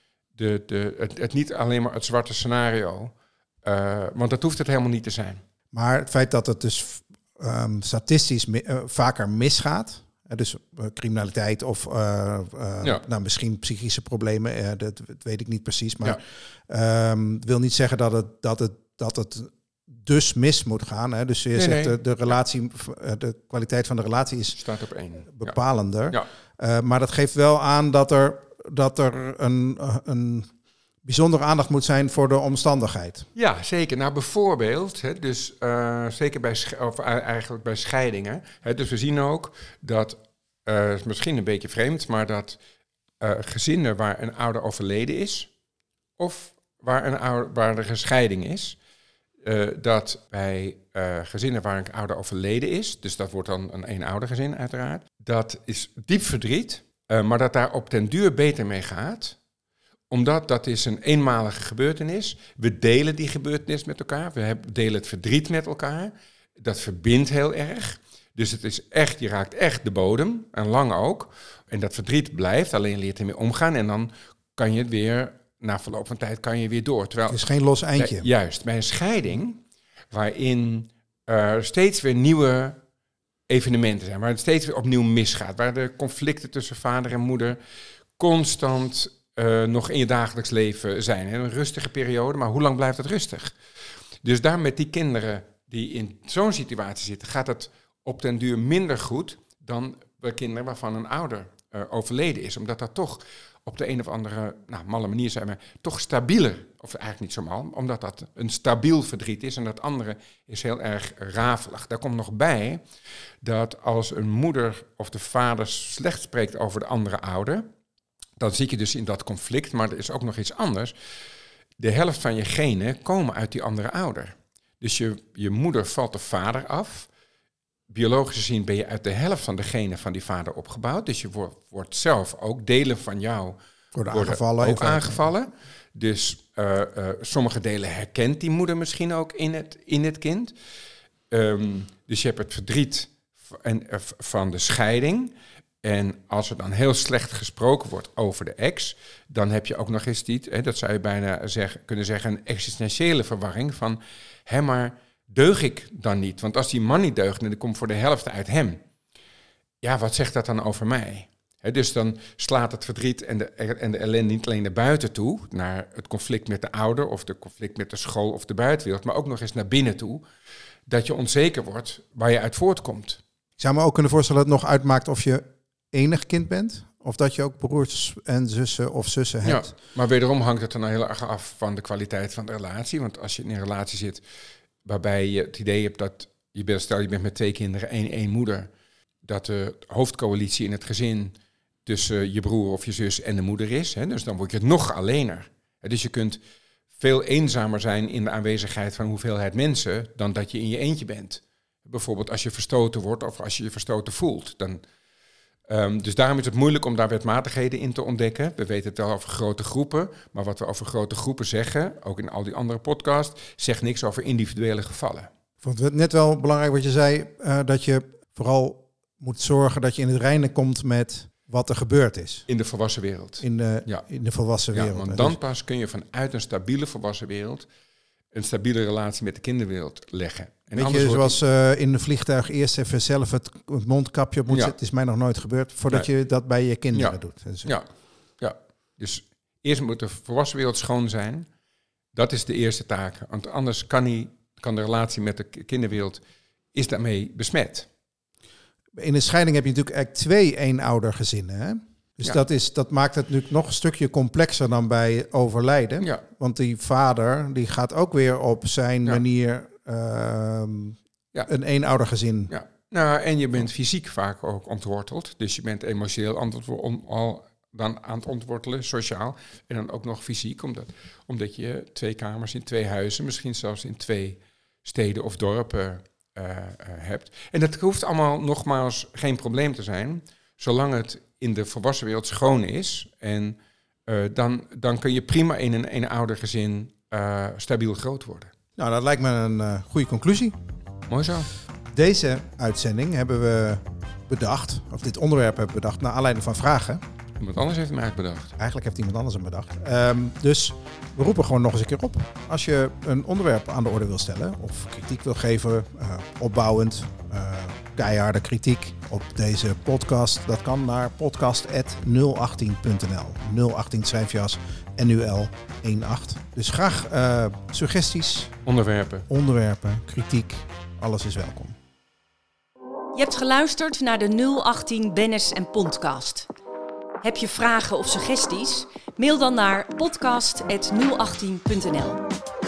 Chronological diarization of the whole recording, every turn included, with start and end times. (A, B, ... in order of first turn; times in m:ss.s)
0:00.4-0:05.4 A
0:05.7-0:24.6 B
0:21.5-0:22.0 A
0:24.6-0:25.6 A
0:25.3-0:30.5 B
0:31.0-0:33.3 B
0:33.3-0:42.6 A
0:43.2-0:45.5 A
0:46.2-0:48.8 A
0:49.4-0:59.4 A
1:00.1-1:22.8 A
1:17.3-1:18.3 B
1:23.5-1:27.6 A
1:28.2-1:33.5 A
1:34.2-1:52.8 A
1:53.4-1:57.6 A
1:58.4-2:00.9 A
2:01.8-2:07.1 A
2:07.9-2:13.6 A
2:13.9-2:15.3 B
2:14.1-2:20.5 A
2:21.3-2:38.8 A
2:39.8-2:50.2 A
2:50.9-2:53.2 A
2:53.6-2:59.7 B
2:59.4-3:04.2 A
3:04.8-3:08.7 A
3:09.2-3:11.3 A
3:11.8-3:16.4 A
3:17.0-3:24.8 A
3:25.7-3:35.3 A
3:35.6-3:42.4 B
3:42.5-3:44.0 A
3:43.4-3:45.4 B
3:44.7-3:47.7 A
3:48.3-3:51.4 A
3:50.7-3:57.7 B
3:54.5-3:54.7 A
3:56.9-3:57.8 A
3:58.4-4:01.5 A
4:02.1-4:06.2 A
4:06.7-4:07.9 A
4:09.0-4:22.5 B
4:22.5-4:48.5 A
4:48.8-4:50.5 B
4:51.1-4:51.5 A
4:51.9-4:57.0 B
4:57.4-4:58.6 A
4:58.6-5:18.5 B
5:18.6-5:19.2 A
5:19.3-5:21.8 B
5:23.1-5:26.5 C
5:27.2-5:32.2 C